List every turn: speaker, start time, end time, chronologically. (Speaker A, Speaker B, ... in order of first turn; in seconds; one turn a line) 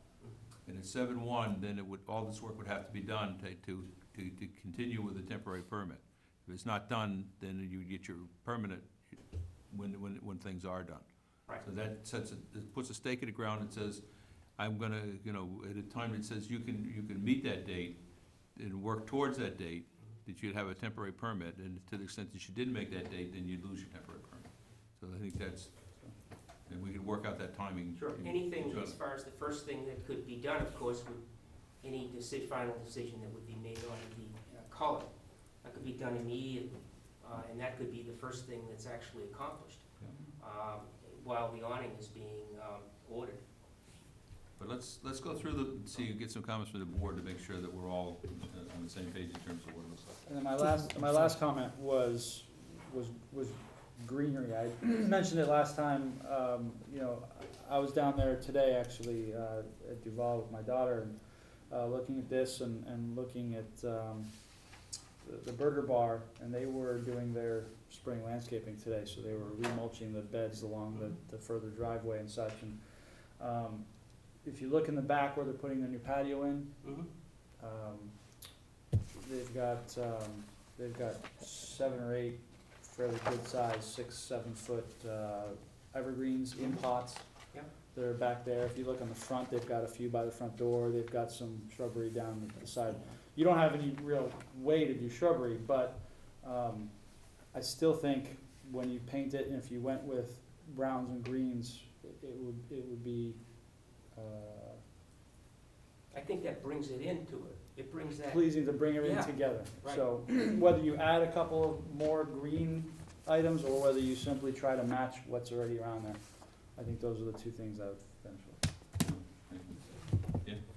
Speaker A: 0.7-9.2
Speaker A: 9.7-14.0
Speaker A: 14.6-26.1
Speaker A: 26.6-29.0
Speaker B: 27.9-43.4
Speaker A: 44.6-50.3
Speaker C: 50.3-64.6
Speaker C: 65.2-76.8
Speaker B: 76.8-77.1
Speaker C: 77.6-78.2
Speaker C: 79.1-87.3
Speaker C: 87.9-103.4
Speaker C: 104.0-104.8
Speaker B: 106.1-110.1
Speaker C: 108.3-118.6
Speaker A: 119.0-120.6